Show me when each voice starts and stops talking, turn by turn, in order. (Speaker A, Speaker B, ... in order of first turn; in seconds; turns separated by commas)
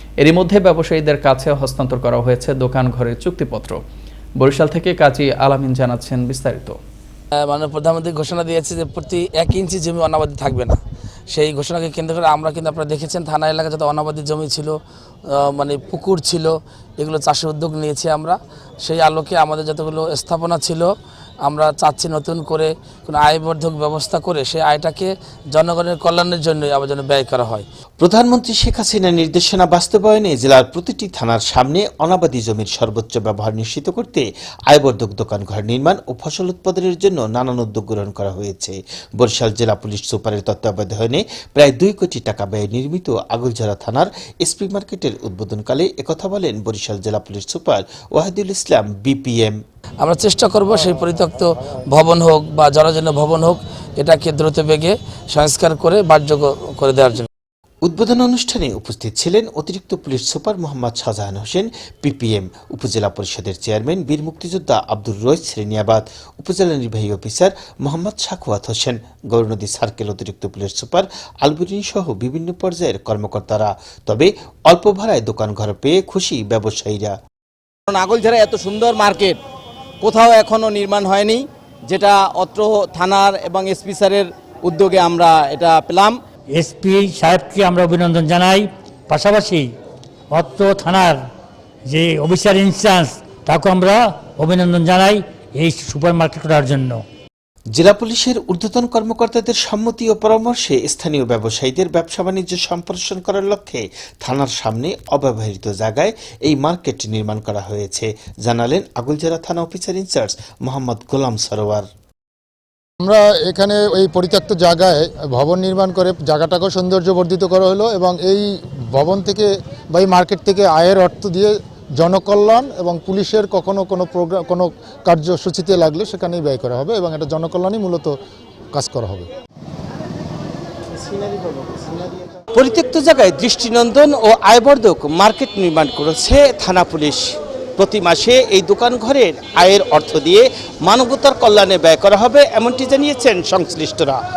Speaker A: 0.2-3.8, Speaker A: 4.4-6.8, Speaker B: 7.4-10.8, Speaker B: 11.3-20.9, Speaker B: 21.4-27.6, Speaker C: 28.0-49.5, Speaker B: 50.0-57.3, Speaker C: 57.8-77.2, Speaker D: 77.9-79.4, Speaker D: 80.0-86.2, Speaker E: 86.5-89.7, Speaker E: 90.3-91.2, Speaker E: 91.9-97.0, Speaker C: 97.7-111.8, Speaker F: 113.0-128.1, Speaker F: 128.7-129.2, Speaker C: 131.0-132.0, Speaker C: 132.5-137.2, Speaker C: 137.8-144.2